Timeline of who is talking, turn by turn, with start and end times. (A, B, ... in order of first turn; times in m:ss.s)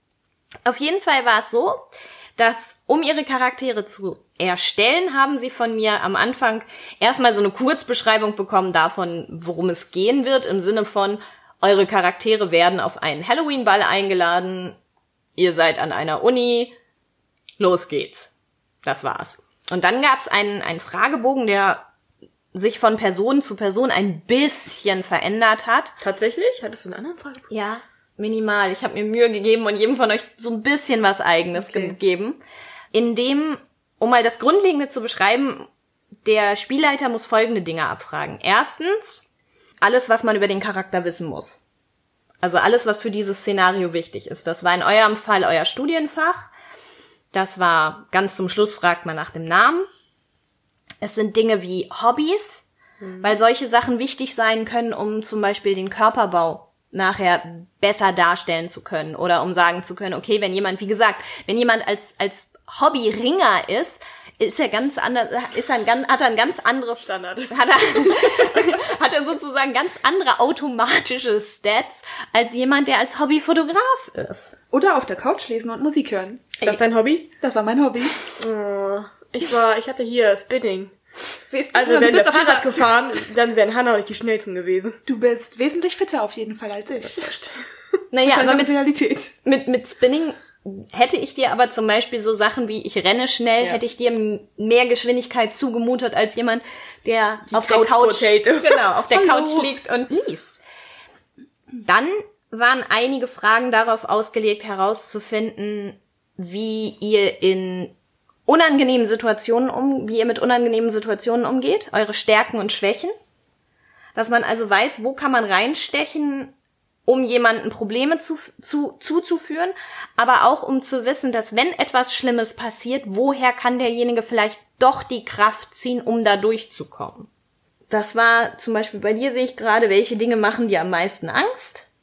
0:00.6-0:14.8 A
0:15.4-0:16.8 A
0:17.6-0:18.3 A
0:18.8-0:21.9 A
0:22.5-0:25.9 A
0:26.0-0:27.5 B
0:27.5-0:32.4 A
0:31.6-0:32.0 B
0:32.9-0:35.7 A
0:36.2-0:39.3 A
0:39.8-0:41.6 A
0:42.4-0:46.5 A
0:47.3-0:49.9 A
0:51.0-0:52.7 A
0:53.0-0:53.3 B
0:53.2-1:14.5 A
1:07.0-1:08.7 B
1:14.7-1:16.6 C
1:16.6-1:17.3 B
1:17.4-1:18.3 C
1:18.4-1:21.0 B
1:21.5-1:22.9 C
1:21.7-1:25.0 B
1:25.1-1:27.4 C
1:27.1-1:27.5 B
1:28.1-1:28.7 A
1:28.2-1:29.4 C
1:29.4-1:40.6 A
1:37.5-1:39.7 B
1:41.8-1:47.9 A
1:48.5-1:53.2 A
1:54.2-1:56.5 A
1:57.1-2:07.3 A
2:07.9-2:11.9 A